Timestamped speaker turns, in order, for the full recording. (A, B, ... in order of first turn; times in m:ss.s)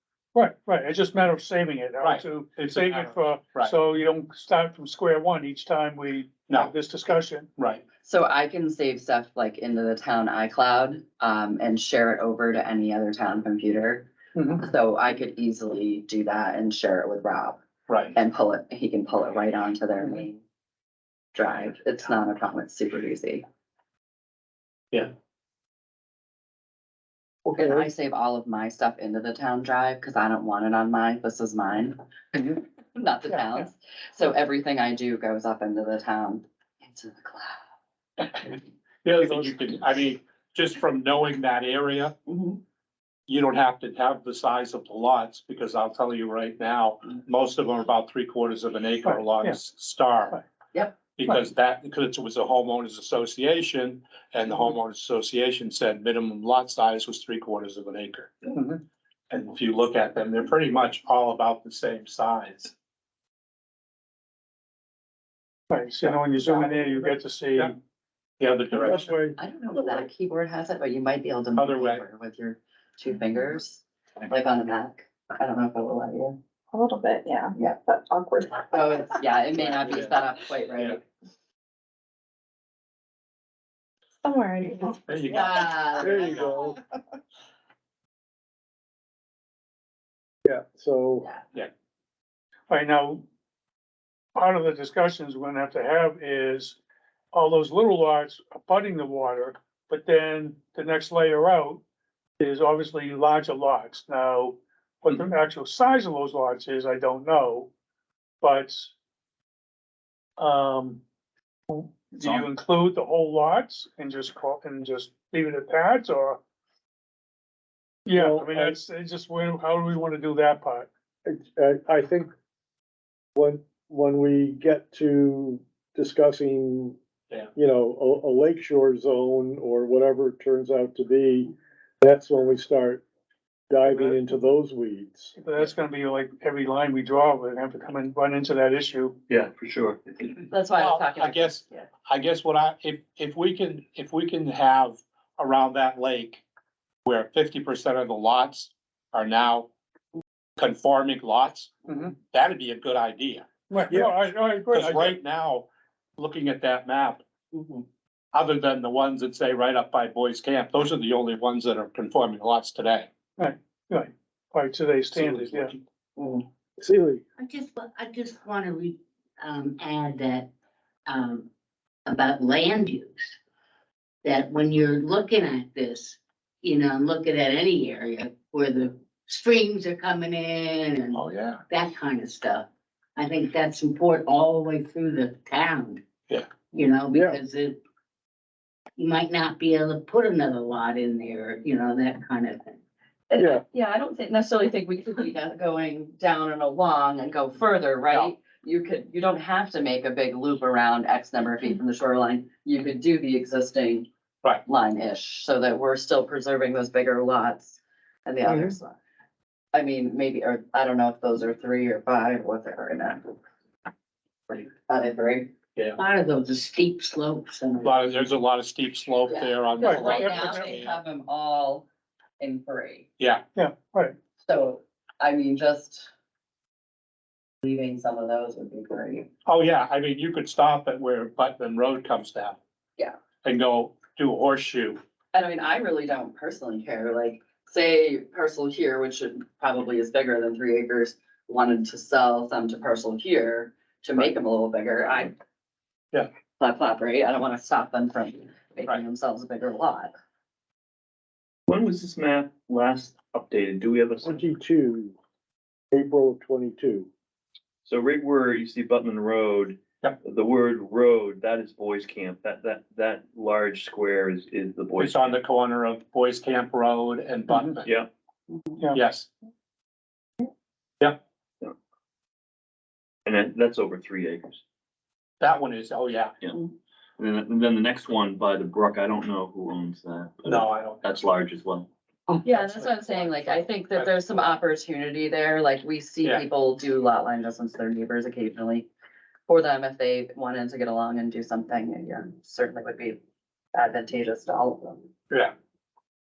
0:00.4-0:07.5 A
0:02.0-0:03.8 B
0:07.6-0:07.8 B
0:08.0-0:17.6 C
0:14.4-0:14.6 A
0:17.9-0:18.2 B
0:18.2-0:20.4 C
0:21.4-0:23.4 C
0:27.5-0:27.9 D
0:27.6-0:32.0 C
0:33.0-0:37.6 C
0:38.3-0:42.2 B
0:42.3-0:42.6 C
0:43.3-0:50.4 B
0:49.0-0:49.6 A
0:51.2-0:58.5 B
0:58.6-0:58.8 A
0:59.3-1:02.7 B
1:05.7-1:07.8 A
1:06.0-1:07.8 B
1:08.4-1:09.2 B
1:08.8-1:09.4 A
1:09.4-1:16.4 C
1:11.6-1:12.0 B
1:16.7-1:18.8 E
1:18.6-1:21.0 C
1:24.2-1:25.5 E
1:25.1-1:25.5 B
1:25.3-1:26.4 C
1:26.0-1:26.8 D
1:30.4-1:31.3 D
1:32.7-1:33.2 A
1:34.4-1:36.8 A
1:37.3-1:41.8 A
1:42.4-1:47.7 A
1:48.4-1:48.9 A
1:50.4-1:51.0 A
1:51.7-1:56.4 A
1:52.2-1:52.5 B
1:58.1-2:00.9 A
1:58.1-1:58.8 D
2:01.2-2:02.3 D
2:03.4-2:07.0 D
2:07.5-2:13.0 D
2:13.7-2:15.4 D
2:13.9-2:14.3 A
2:15.4-2:19.2 A
2:19.3-2:20.0 F
2:20.4-2:21.9 C
2:20.8-2:26.4 B
2:27.0-2:29.7 B
2:30.6-2:34.1 B
2:31.9-2:32.2 A
2:33.7-2:35.2 A
2:34.7-2:43.1 B
2:43.4-2:45.7 A
2:45.1-2:45.8 B
2:46.8-2:47.2 D
2:47.4-2:50.5 G
2:51.1-2:51.5 G
2:52.1-2:53.4 G
2:54.2-3:06.0 G
3:01.1-3:01.6 B
3:06.7-3:07.8 G
3:07.1-3:07.4 D
3:09.0-3:12.8 G
3:13.3-3:24.1 C
3:13.4-3:13.6 D
3:24.6-3:29.0 C
3:29.7-3:33.4 C
3:34.5-3:35.5 C
3:36.0-3:38.0 G
3:37.8-3:41.0 B
3:39.3-3:41.9 C
3:39.8-3:40.7 A
3:42.4-3:43.1 C
3:43.6-3:44.2 A
3:44.4-3:46.1 C
3:47.6-3:49.3 C
3:49.4-3:52.6 B
3:53.4-3:55.0 B
3:55.3-4:05.3 C
4:06.6-4:10.1 C
4:11.7-4:14.4 F
4:14.2-4:15.2 D
4:15.9-4:17.1 D
4:17.8-4:25.4 F
4:25.0-4:27.9 B
4:27.5-4:27.8 A
4:28.9-4:29.3 B
4:33.3-4:34.6 F
4:35.4-4:36.4 B
4:37.2-4:41.9 F
4:40.4-4:41.0 B
4:42.4-4:44.5 B
4:42.4-4:48.9 C
4:49.5-4:53.2 C
4:53.7-4:55.1 C